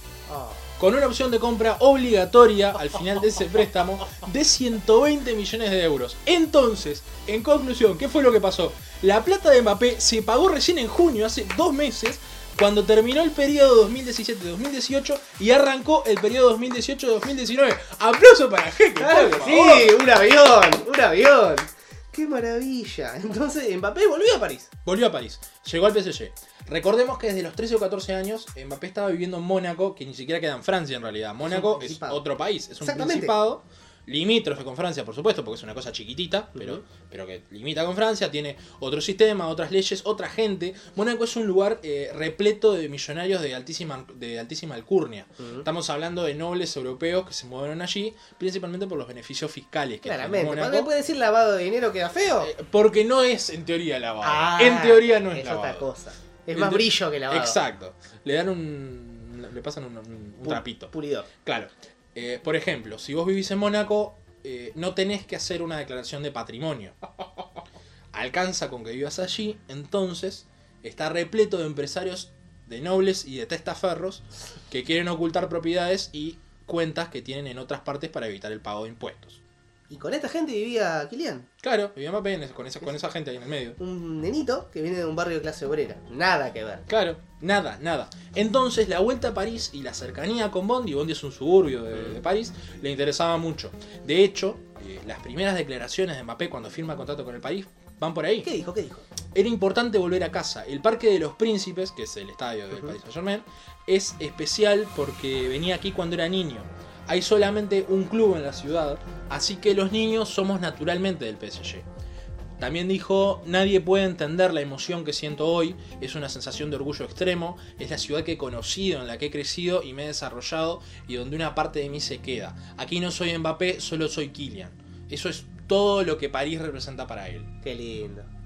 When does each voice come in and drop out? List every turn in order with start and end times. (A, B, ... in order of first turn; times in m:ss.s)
0:00.3-0:00.7 A
0:00.8-0:20.1 B
0:19.0-0:24.7 A
0:24.8-0:50.9 B
0:31.4-0:32.2 A
0:32.8-0:33.3 A
0:36.6-0:36.8 A
0:45.4-0:45.6 A
0:50.0-0:52.5 A
0:52.4-0:55.8 B
0:54.2-0:57.6 A
0:56.5-1:07.0 B
1:00.4-1:01.3 A
1:08.1-1:19.4 B
1:19.9-1:21.5 A
1:21.6-1:23.8 B
1:23.8-1:26.9 A
1:26.9-1:38.5 B
1:38.4-1:39.0 A
1:39.3-1:51.9 B
1:52.6-2:07.5 B
2:07.6-2:08.3 A